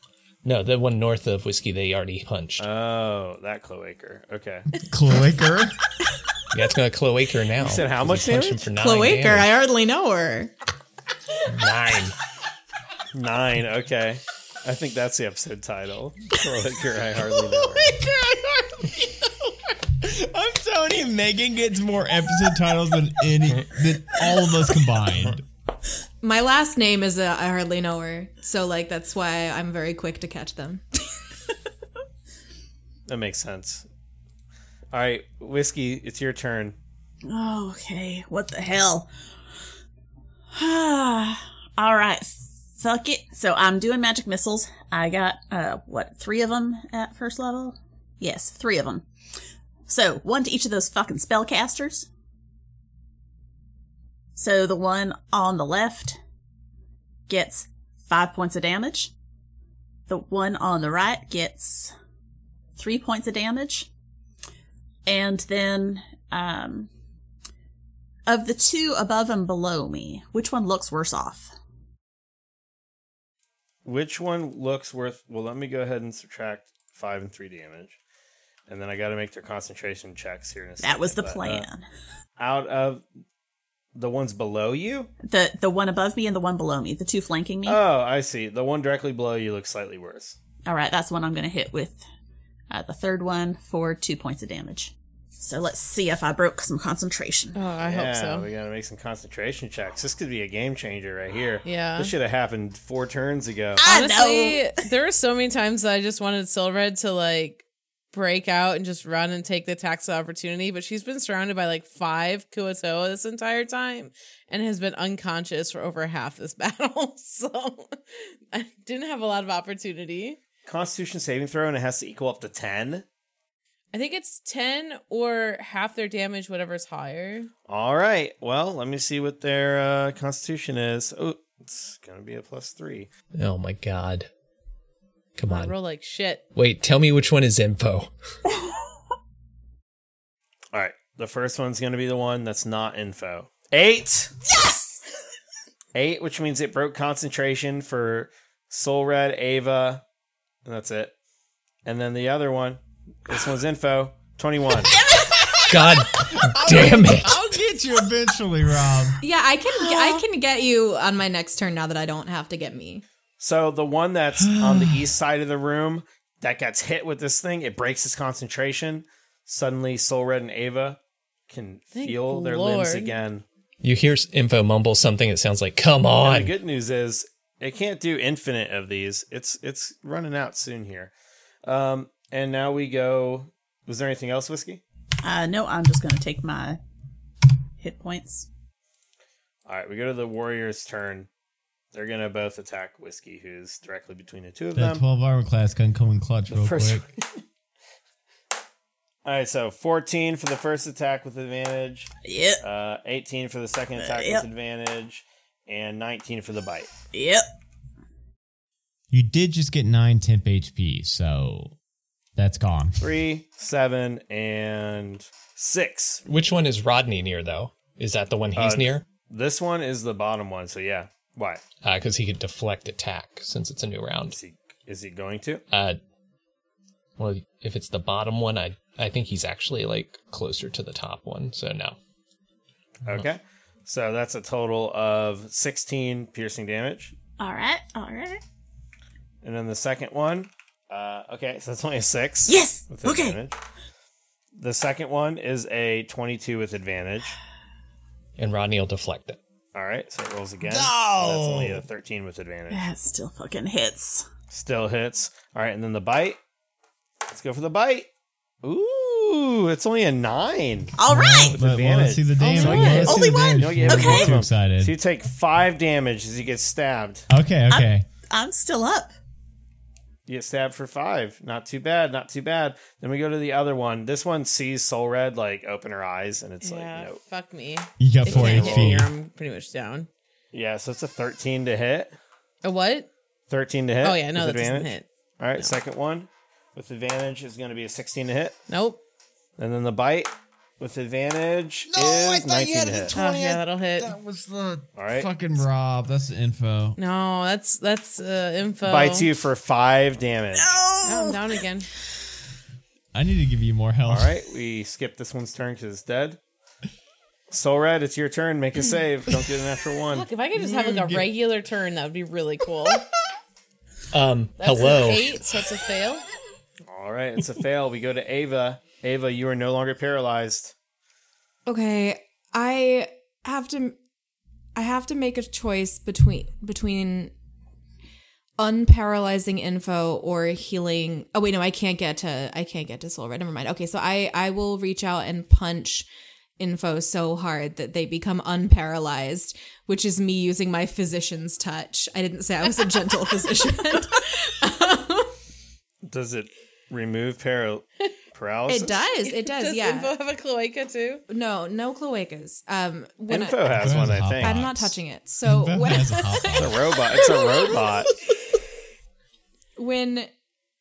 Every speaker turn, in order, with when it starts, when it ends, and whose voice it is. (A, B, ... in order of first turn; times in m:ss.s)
0:00.4-0:02.7 A
0:02.6-0:04.7 B
0:04.9-0:05.8 C
0:06.5-0:09.5 A
0:07.6-0:08.7 B
0:08.7-0:10.5 D
0:11.5-0:12.1 A
0:13.1-0:17.9 B
0:17.8-0:25.4 C
0:26.2-0:30.8 D
0:33.1-0:33.8 B
0:34.9-0:36.8 B
0:37.2-0:39.1 E
0:40.5-0:49.0 E
0:49.9-0:52.1 E
0:54.4-0:56.2 E
0:57.3-0:59.1 E
1:00.1-1:01.9 E
1:02.8-1:03.9 E
1:05.0-1:06.9 E
1:08.3-1:11.5 E
1:13.8-1:18.0 B
1:18.7-1:21.7 B
1:20.8-1:21.8 E
1:22.4-1:23.0 B
1:23.9-1:25.1 B
1:25.2-1:27.8 E
1:27.6-1:30.4 B
1:30.6-1:32.0 E
1:32.7-1:37.6 E
1:37.5-1:38.5 F
1:37.8-1:43.8 B
1:41.6-1:42.1 F
1:43.8-1:44.8 E
1:43.8-2:00.4 F
2:00.6-2:03.0 B
2:03.9-2:07.5 F
2:07.7-2:13.1 B
2:13.3-2:14.3 A
2:15.4-2:15.7 A
2:15.5-2:16.4 F
2:16.5-2:18.1 A
2:20.7-2:24.3 B
2:25.9-2:30.0 B
2:30.6-2:31.1 B
2:31.8-2:35.0 B
2:35.4-2:39.2 C
2:35.7-2:37.4 A
2:39.2-2:43.0 D
2:39.9-2:40.2 E
2:43.4-2:53.4 B
2:44.4-2:45.0 C
2:51.9-2:53.2 F
2:53.8-2:56.5 A
2:56.2-3:01.1 B
3:01.6-3:04.8 B
3:05.2-3:06.8 E
3:07.8-3:08.5 E
3:09.7-3:11.3 B
3:11.9-3:15.0 B
3:14.8-3:17.0 C
3:16.5-3:17.2 B
3:19.2-3:22.1 B
3:22.2-3:22.6 E
3:22.6-3:26.9 B
3:24.0-3:24.4 E
3:27.1-3:27.4 E
3:29.1-3:31.7 C
3:32.4-3:33.1 C
3:33.0-3:36.2 B
3:36.2-3:39.0 A
3:38.5-3:41.6 B
3:41.8-3:44.4 A
3:44.3-3:45.6 B
3:45.7-3:46.0 A
3:47.2-3:52.0 A
3:53.0-3:57.1 B
3:57.4-3:58.4 E
3:59.4-4:03.6 B
4:02.5-4:03.4 E
4:04.6-4:07.4 B
4:08.4-4:09.4 A
4:09.7-4:12.9 B
4:10.7-4:11.8 E
4:12.7-4:14.3 E
4:14.5-4:16.4 B
4:17.3-4:18.1 B
4:18.6-4:20.9 B
4:21.0-4:21.6 E
4:21.0-4:24.9 C
4:21.5-4:27.3 B
4:22.4-4:23.2 F
4:22.5-4:24.3 E
4:27.3-4:28.0 C
4:27.7-4:29.1 E
4:30.3-4:37.2 B
4:36.6-4:40.1 F
4:38.0-4:39.1 C
4:38.3-4:39.0 B
4:40.5-4:42.1 B
4:42.6-4:43.1 F
4:43.5-4:48.5 B
4:44.0-4:45.1 F
4:48.7-4:49.0 F
4:49.6-4:53.1 B
4:51.9-4:57.0 C
4:53.1-4:54.2 F
4:54.9-4:55.3 B
4:57.0-4:59.3 F
4:58.8-5:00.7 B
5:00.6-5:01.5 E
5:01.0-5:01.9 F
5:03.1-5:04.3 C
5:04.1-5:06.4 B
5:07.5-5:10.3 B
5:10.1-5:13.0 F
5:10.5-5:11.3 C
5:14.1-5:15.4 A
5:14.6-5:16.2 F
5:16.9-5:20.7 B
5:21.6-5:24.0 D
5:24.7-5:27.3 D
5:28.6-5:36.1 D
5:36.6-5:45.3 D
5:46.1-5:49.0 B
5:48.7-5:50.1 D
5:49.2-5:51.2 F
5:51.3-5:56.3 D
5:53.3-5:54.6 B
5:53.7-5:56.8 C
5:56.2-5:56.4 F
5:56.5-5:58.1 B
5:59.8-6:00.3 D